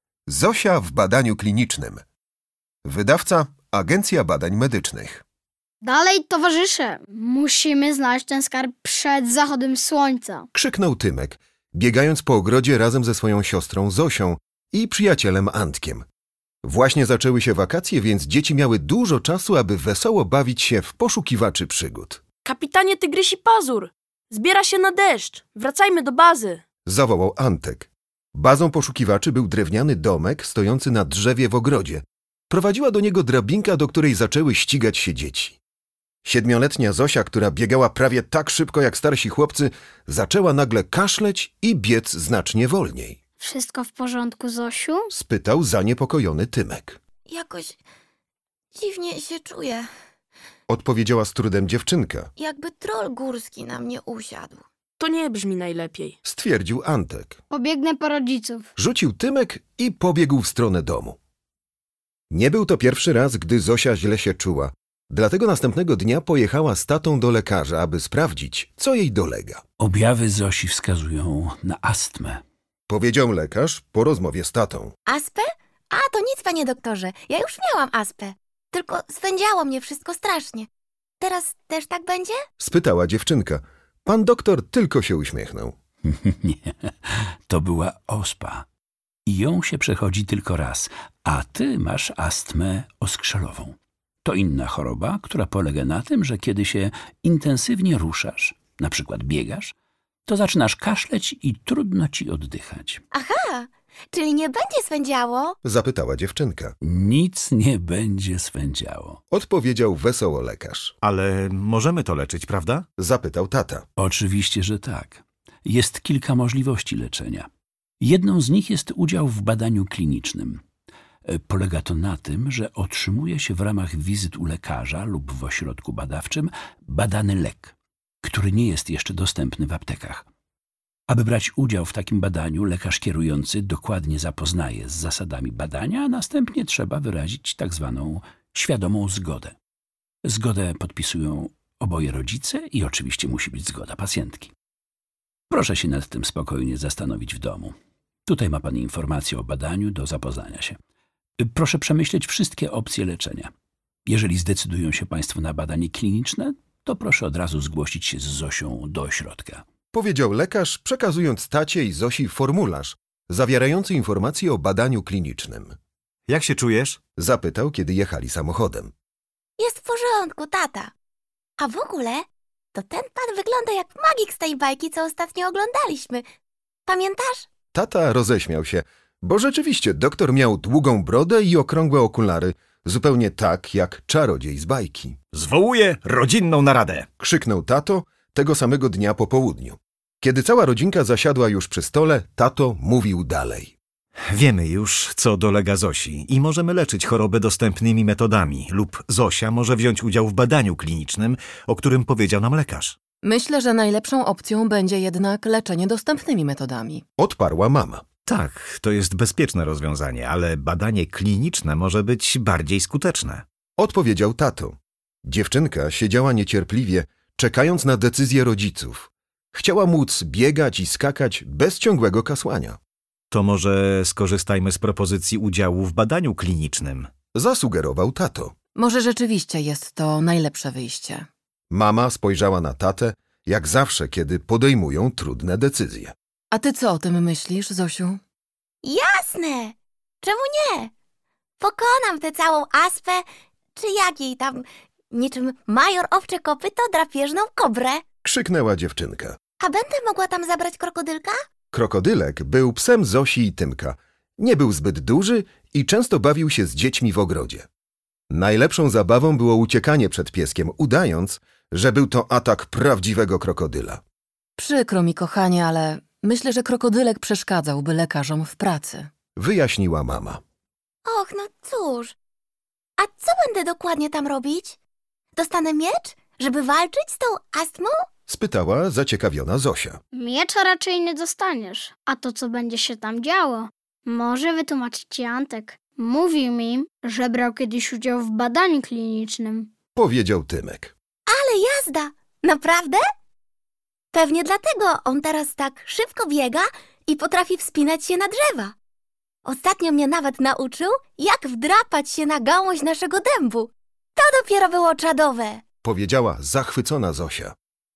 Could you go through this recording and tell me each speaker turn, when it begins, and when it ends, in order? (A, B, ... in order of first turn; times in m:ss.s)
0:00.3-0:02.0 A
0:02.8-0:05.2 A
0:05.8-0:10.5 B
0:10.5-0:16.0 A
0:16.6-0:22.2 A
0:22.4-0:26.6 C
0:26.9-0:35.6 A
0:36.2-0:43.2 A
0:43.4-0:45.1 B
0:45.1-0:47.0 A
0:47.3-0:47.8 D
0:48.7-0:49.9 D
0:50.7-0:52.3 A
0:52.4-0:54.6 D
0:55.0-0:56.2 C
0:56.2-0:57.4 A
0:57.5-0:58.7 B
0:58.8-1:01.2 A
1:02.3-1:09.6 A
1:09.8-1:12.4 E
1:12.9-1:14.9 A
1:15.1-1:20.7 D
1:21.2-1:22.4 D
1:22.6-1:25.7 A
1:26.0-1:28.6 E
1:29.3-1:39.7 E
1:40.3-1:43.0 E
1:43.1-1:45.6 D
1:45.6-1:46.7 A
1:46.8-1:49.2 E
1:49.3-1:50.9 A
1:51.0-1:52.8 F
1:53.0-1:53.8 A
1:54.0-1:57.5 E
1:58.0-2:00.6 E
2:01.2-2:10.2 E
2:11.1-2:19.6 E
2:20.2-2:24.5 E
2:25.5-2:27.7 E
2:28.2-2:30.8 E
2:31.4-2:33.5 E
2:34.1-2:39.6 E
2:39.9-2:45.7 A
2:46.3-2:47.0 F
2:47.2-2:48.9 A
2:49.6-2:50.9 D
2:51.6-2:52.2 D
2:52.7-2:56.2 D
2:56.9-2:57.5 D
2:57.7-3:05.2 A
3:05.3-3:07.0 F
3:07.2-3:13.8 A
3:14.3-3:23.0 F
3:23.2-3:27.0 G
3:27.2-3:28.0 A
3:28.3-3:33.4 F
3:33.8-3:42.8 A
3:43.3-3:47.1 F
3:47.3-3:48.5 A
3:48.8-3:51.3 G
3:51.7-3:56.1 A
3:56.5-3:58.2 G
3:58.8-4:00.9 D
4:01.6-4:03.2 D
4:03.8-4:08.0 D
4:08.2-4:09.4 A
4:09.6-4:11.4 D
4:11.7-4:17.6 A
4:18.3-4:24.0 A
4:24.6-4:29.1 G
4:29.4-4:30.4 A
4:31.0-4:32.1 D
4:33.0-4:34.8 D
4:35.4-4:37.9 D
4:38.3-4:40.0 A
4:40.1-4:49.7 B
4:50.0-4:50.9 A
4:51.3-4:53.0 D
4:54.1-4:58.7 D
4:59.4-5:05.6 D
5:05.8-5:07.5 A